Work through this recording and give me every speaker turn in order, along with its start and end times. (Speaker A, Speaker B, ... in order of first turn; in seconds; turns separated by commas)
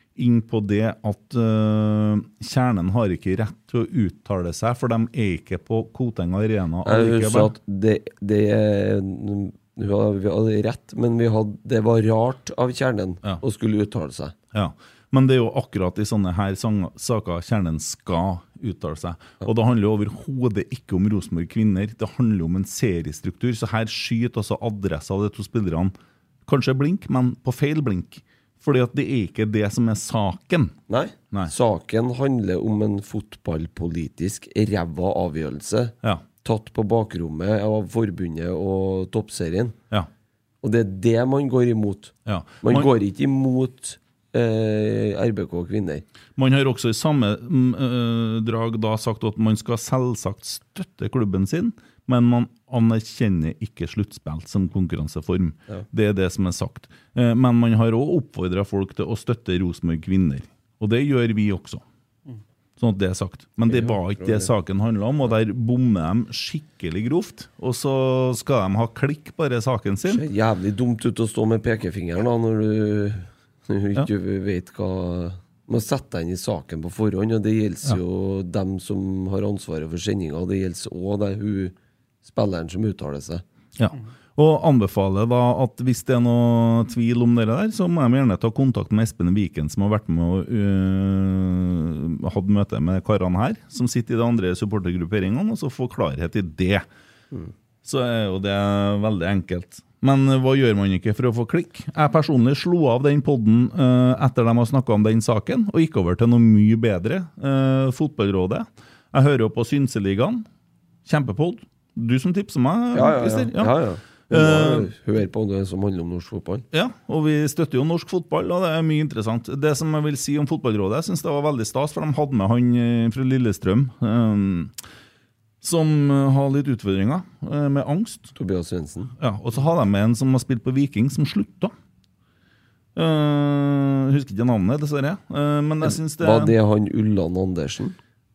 Speaker A: 0.1-7.5, Speaker B: 6.8-14.3, Speaker A: 14.5-25.9, Speaker A: 26.5-30.7, Speaker B: 30.9-39.8, Speaker B: 40.6-46.0, Speaker A: 42.2-42.9, Speaker A: 46.4-61.8, Speaker A: 62.8-70.2, Speaker B: 63.6-64.5, Speaker B: 70.1-83.4, Speaker A: 83.8-96.8, Speaker A: 97.8-110.4, Speaker A: 111.0-113.7, Speaker B: 112.9-116.7, Speaker A: 114.3-114.9, Speaker A: 116.7-124.7, Speaker A: 125.6-128.3, Speaker B: 128.3-129.1, Speaker A: 129.2-131.7, Speaker A: 132.9-136.5, Speaker B: 135.8-138.0